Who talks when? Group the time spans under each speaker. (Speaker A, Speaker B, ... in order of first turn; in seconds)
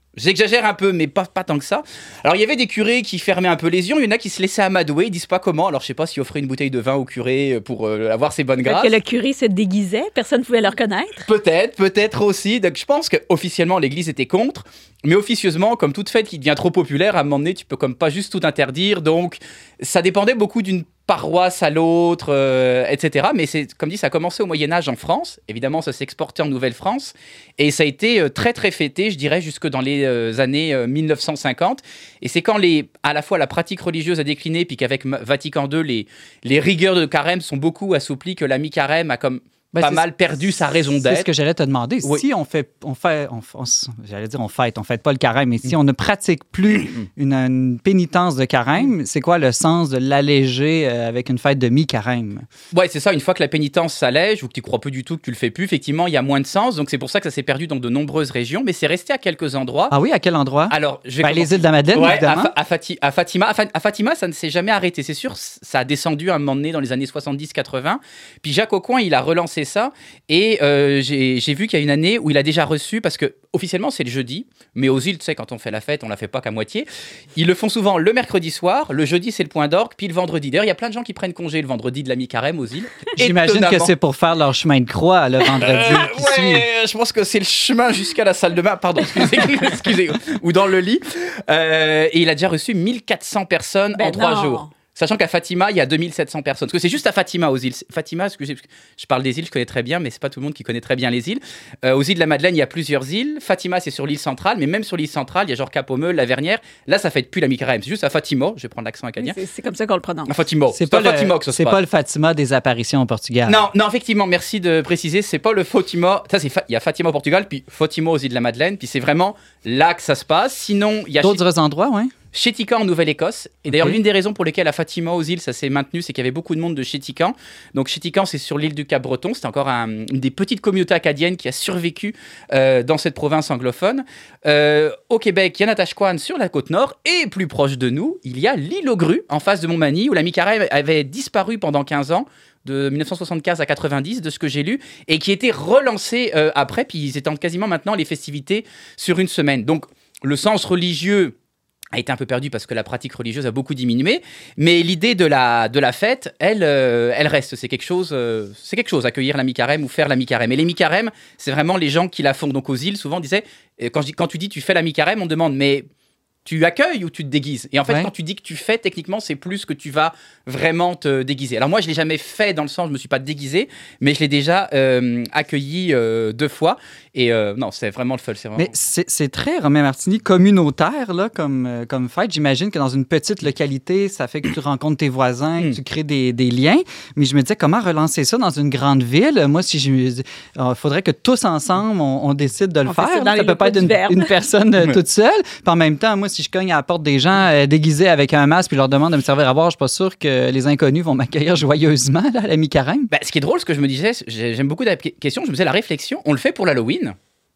Speaker A: 0.1-8.9, 11.2-41.3, 46.7-47.0, 52.7-59.9, 60.7-83.9, 85.6-109.4, 110.3-111.8, 113.5-121.4, 122.3-151.3, 151.9-165.8, 166.4-178.7, 203.1-207.2
Speaker B: 8.6-11.3, 94.0-94.7, 109.2-110.3, 192.8-194.3
Speaker C: 39.7-40.0, 40.8-52.5, 59.9-62.5, 83.2-86.6, 110.7-113.6, 121.2-122.1, 123.7-124.0, 178.6-203.1